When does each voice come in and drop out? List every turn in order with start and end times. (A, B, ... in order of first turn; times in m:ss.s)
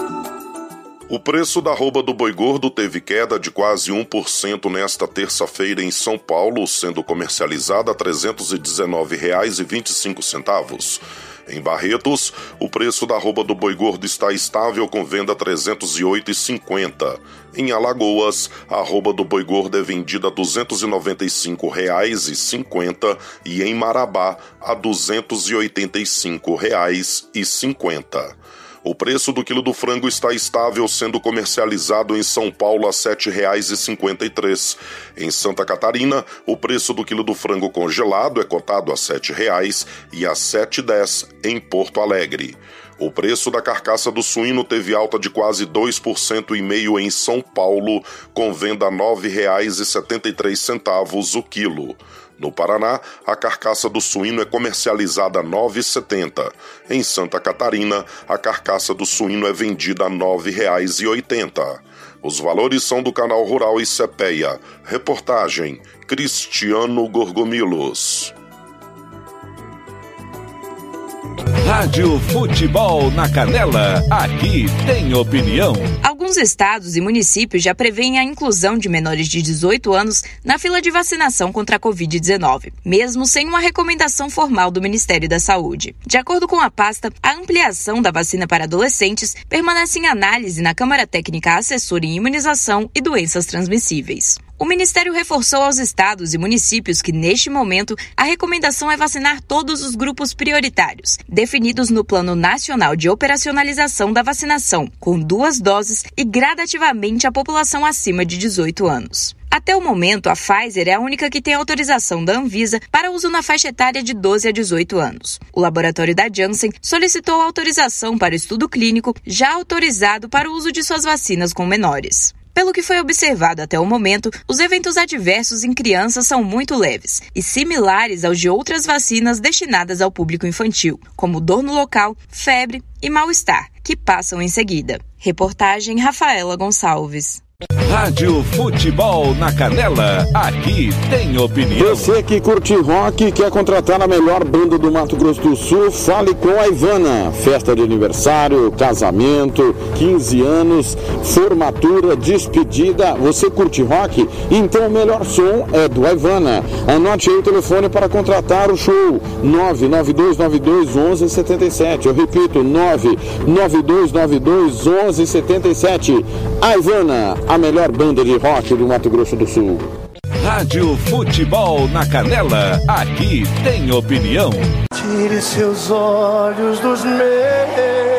0:01.1-1:08.3 A
1:11.6-1:16.0 B
1:16.0-2:17.4 C
2:17.8-2:22.1 B
2:21.7-2:49.9 D
2:50.4-2:54.7 B
2:55.2-2:57.7 E